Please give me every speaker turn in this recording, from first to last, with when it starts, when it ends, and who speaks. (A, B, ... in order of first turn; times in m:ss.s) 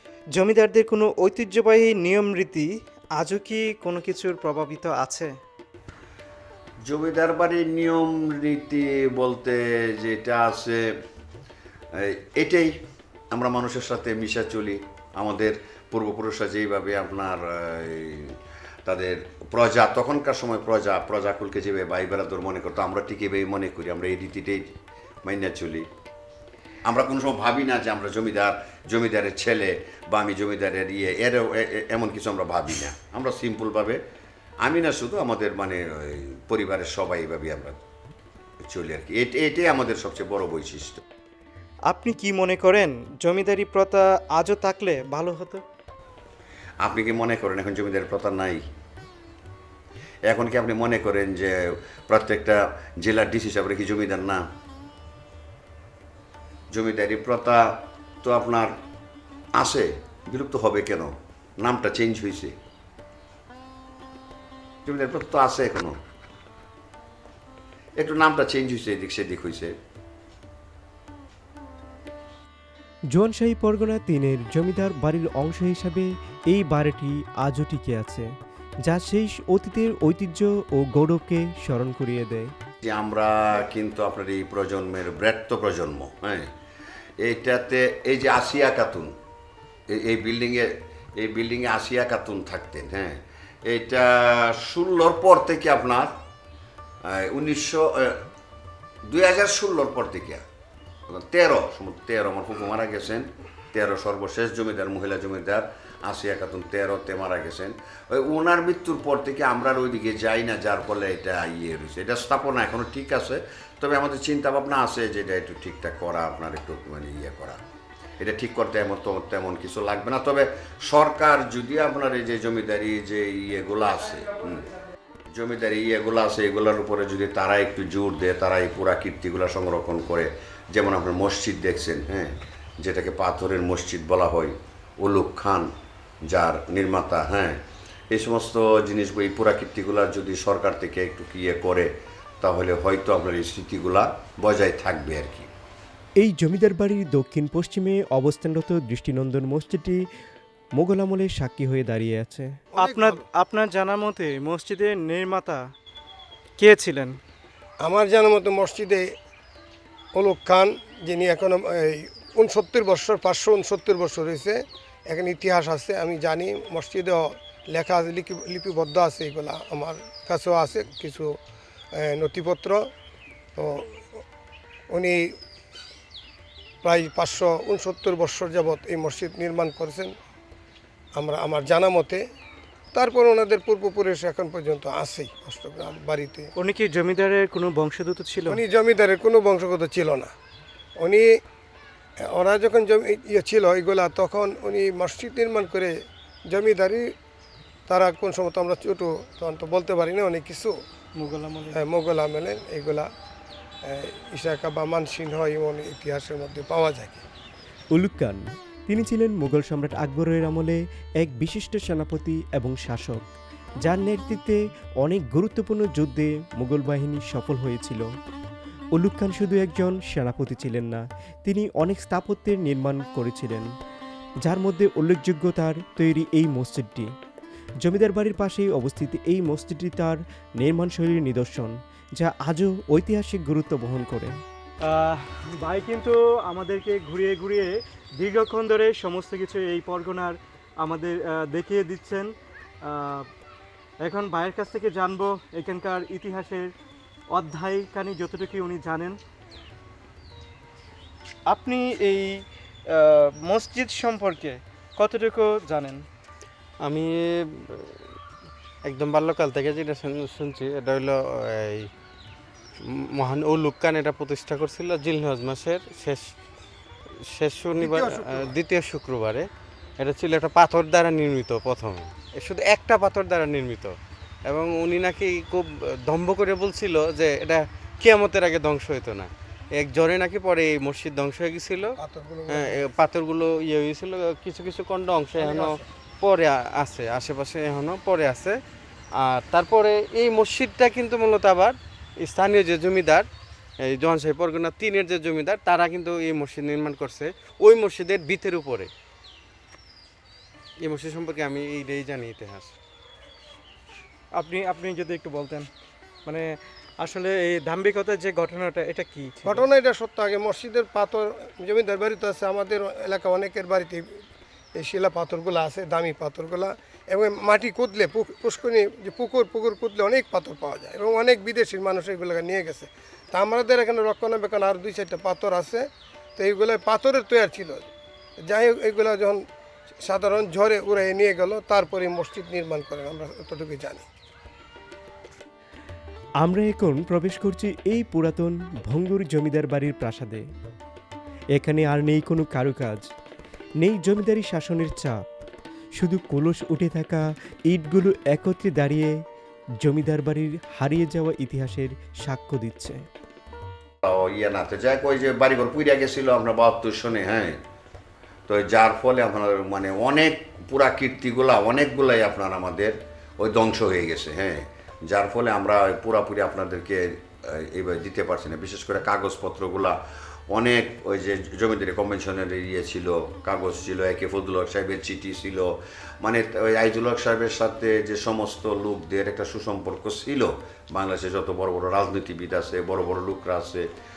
0:00.3-0:05.3 A
0:06.8-0:10.9 B
0:11.9-0:12.8 B
0:13.3-0:18.3 B
0:18.8-0:24.7 B
0:25.2-0:25.9 B
0:26.8-0:34.0 B
0:34.6-0:37.8 B
0:38.6-0:41.0 B
0:41.9-0:45.6 A
0:46.8-0:48.6 B
0:50.3-0:54.4 B
0:56.7-0:58.7 B
0:59.6-1:02.6 B
1:04.8-1:06.0 B
1:08.0-1:09.7 B
1:13.1-1:18.3 C
1:18.8-1:22.5 C
1:22.8-1:26.5 B
1:27.2-1:29.1 B
1:29.9-1:36.2 B
1:37.1-1:38.2 B
1:39.0-1:40.4 B
1:41.1-1:57.6 B
1:58.2-2:04.7 B
2:05.3-2:15.7 B
2:16.3-2:17.6 B
2:18.1-2:21.9 B
2:22.4-2:25.5 B
2:26.2-2:30.0 C
2:30.8-2:32.5 C
2:32.7-2:33.2 D
2:32.8-2:35.6 A
2:36.6-2:37.2 A
2:37.8-2:39.1 D
2:40.1-2:51.4 D
2:51.9-2:52.8 D
2:53.6-2:54.2 D
2:54.9-2:55.3 D
2:56.8-3:00.1 D
3:01.1-3:02.2 D
3:02.9-3:06.5 D
3:06.6-3:08.6 A
3:08.5-3:10.3 D
3:11.0-3:11.3 D
3:12.3-3:15.9 D
3:16.5-3:17.1 D
3:17.9-3:20.7 D
3:21.2-3:21.8 A
3:21.7-3:23.1 D
3:23.8-3:27.2 D
3:27.9-3:33.3 C
3:33.8-3:38.0 C
3:39.0-3:43.7 C
3:44.4-3:47.1 C
3:47.8-3:54.3 C
3:54.8-4:02.3 A
4:02.8-4:03.3 A
4:04.0-4:06.7 A
4:07.3-4:09.2 A
4:11.5-4:16.0 A
4:16.8-4:18.0 E
4:18.8-4:21.9 E
4:22.8-4:26.2 E
4:27.3-4:29.4 E
4:27.8-4:28.5 D
4:30.0-4:33.9 E
4:34.5-4:42.0 E
4:42.0-4:42.8 D
4:42.5-4:48.6 E
4:45.4-4:45.8 D
4:49.2-4:53.3 E
4:53.8-4:58.9 E
5:00.8-5:02.8 E
5:04.4-5:05.7 A
5:06.2-5:09.6 A
5:09.4-5:14.2 D
5:14.7-5:25.8 D
5:26.4-5:27.9 D
5:28.4-5:29.4 D
5:30.0-5:34.0 D
5:36.4-5:40.4 C
5:41.5-5:43.1 C
5:43.8-5:45.2 C
5:46.0-5:49.1 C
5:49.8-5:53.0 C
5:54.0-5:57.6 B
5:58.5-6:10.0 B
6:10.5-6:23.8 B